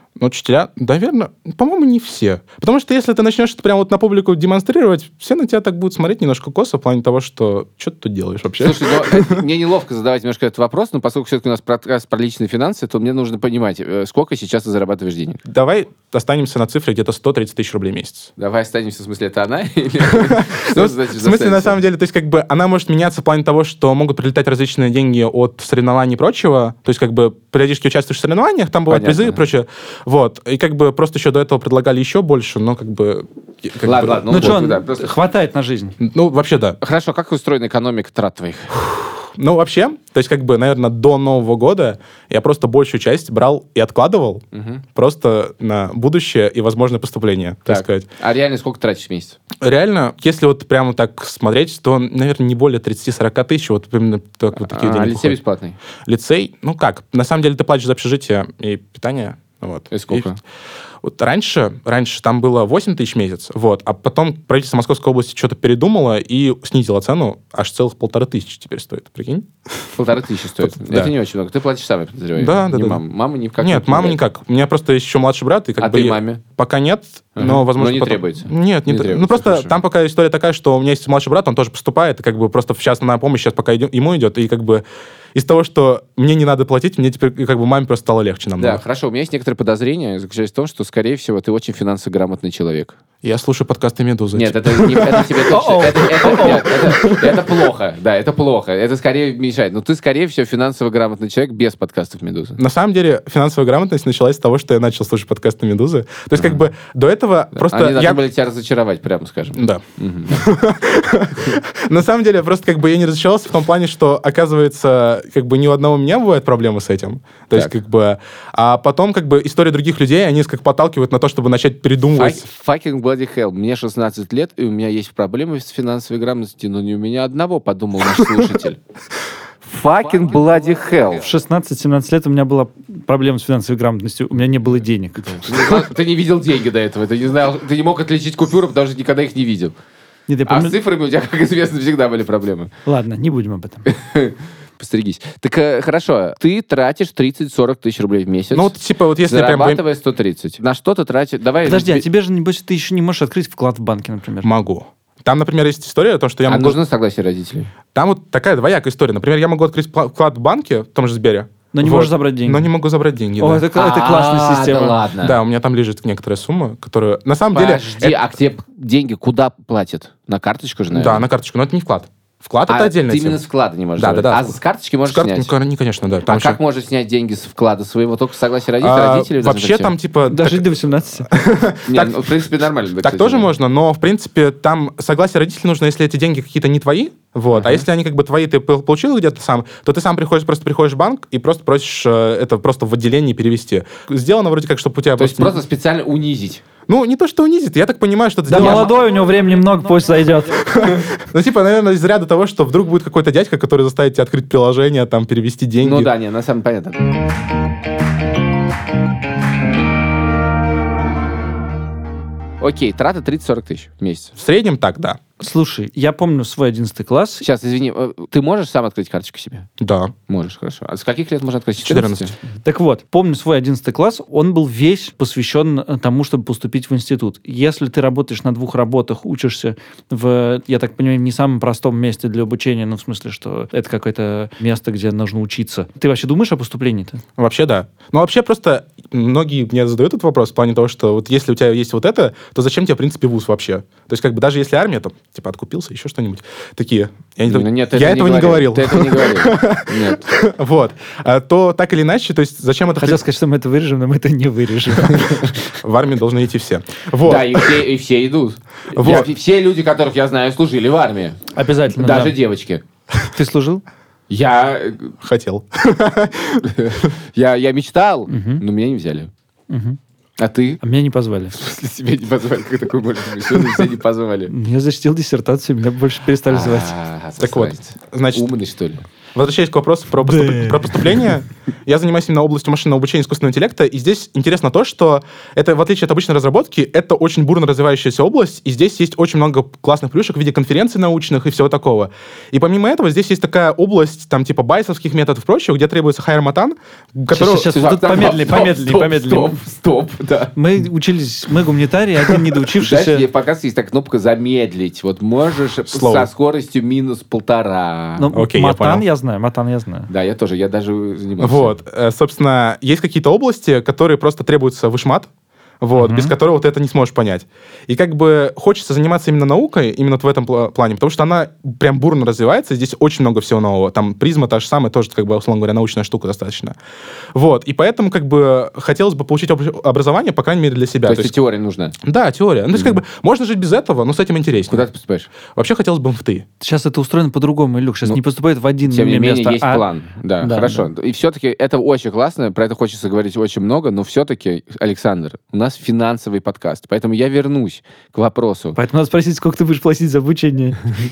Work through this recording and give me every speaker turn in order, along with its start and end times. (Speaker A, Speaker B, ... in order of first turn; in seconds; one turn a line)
Speaker A: 0.2-9.4
Speaker B: 8.6-15.4
Speaker A: 15.5-18.3
Speaker B: 18.4-21.8
Speaker A: 20.1-34.6
Speaker B: 28.9-29.4
Speaker B: 33.8-35.1
Speaker C: 34.3-36.0
Speaker A: 36.0-36.8
Speaker B: 36.8-38.8
Speaker A: 38.8-44.4
Speaker B: 44.5-44.8
Speaker A: 45.0-48.1
Speaker B: 47.7-49.4
Speaker A: 49.6-55.4
Speaker B: 54.6-55.8
Speaker A: 56.1-60.3
Speaker B: 59.9-60.4
Speaker A: 61.0-69.9
Speaker B: 70.0-74.2
Speaker A: 70.6-71.1
Speaker A: 72.4-73.0
Speaker A: 73.6-88.8
Speaker B: 75.8-76.4
Speaker B: 77.4-79.7
Speaker B: 88.6-93.0
Speaker A: 93.2-95.5
Speaker B: 94.3-102.6
Speaker C: 95.5-97.2
Speaker A: 96.2-97.3
Speaker A: 102.6-108.2
Speaker B: 106.3-106.6
Speaker B: 107.6-110.5
Speaker A: 109.6-122.5
Speaker B: 122.1-128.8
Speaker B: 129.7-131.3
Speaker C: 131.2-135.9
Speaker B: 135.3-139.7
Speaker C: 140.3-140.8
Speaker B: 140.5-142.7
Speaker C: 142.9-143.9
Speaker B: 143.9-148.7
Speaker A: 148.5-149.8
Speaker B: 149.2-152.1
Speaker C: 151.7-154.5
Speaker A: 154.4-156.8
Speaker B: 156.5-157.7
Speaker A: 157.9-163.7
Speaker C: 161.7-162.7
Speaker C: 163.4-165.0
Speaker B: 163.8-165.4
Speaker A: 165.2-168.2
Speaker B: 167.5-171.2
Speaker A: 170.9-173.4
Speaker B: 172.7-175.5
Speaker A: 174.0-176.6
Speaker B: 176.3-179.9
Speaker A: 178.8-180.7
Speaker C: 180.3-181.3
Speaker A: 181.3-182.3
Speaker B: 181.9-183.5
Speaker A: 183.0-195.6
Speaker B: 187.5-187.8
Speaker B: 195.2-196.6
Speaker A: 196.9-198.9
Speaker C: 198.5-200.8
Speaker B: 198.5-198.9
Speaker A: 200.7-206.1
Speaker B: 205.8-207.0
Speaker B: 212.6-214.3
Speaker A: 214.4-215.2
Speaker C: 215.4-217.5
Speaker B: 217.4-219.7
Speaker A: 219.8-220.1
Speaker B: 220.3-222.3
Speaker A: 221.8-222.3
Speaker C: 222.6-237.2
Speaker A: 237.4-253.2
Speaker B: 247.5-250.3
Speaker C: 253.0-255.6
Speaker A: 255.8-257.8
Speaker B: 257.2-261.4
Speaker A: 259.0-259.3
Speaker C: 261.6-262.4
Speaker B: 262.0-262.8
Speaker C: 263.3-263.8
Speaker B: 264.3-265.1
Speaker A: 265.2-267.1
Speaker B: 266.6-269.3
Speaker C: 268.3-268.6
Speaker C: 269.7-270.0
Speaker B: 270.4-270.8
Speaker C: 270.8-271.6
Speaker B: 271.6-274.5
Speaker C: 274.5-276.9
Speaker B: 276.5-279.1
Speaker A: 277.4-278.5
Speaker A: 279.4-297.7
Speaker C: 280.3-280.9
Speaker C: 297.3-299.6
Speaker B: 297.5-300.6
Speaker C: 300.6-303.2
Speaker B: 302.8-308.3
Speaker A: 305.9-306.3
Speaker C: 308.2-310.1
Speaker A: 308.3-309.0
Speaker B: 310.1-311.7
Speaker A: 311.4-315.3
Speaker A: 315.8-326.8
Speaker C: 316.0-316.3
Speaker A: 327.3-331.3
Speaker B: 331.0-332.0
Speaker A: 332.0-334.9
Speaker B: 332.7-333.0
Speaker B: 334.7-335.3
Speaker A: 335.5-336.5
Speaker C: 336.6-339.8
Speaker B: 338.9-348.8
Speaker C: 340.4-340.9
Speaker C: 348.8-350.9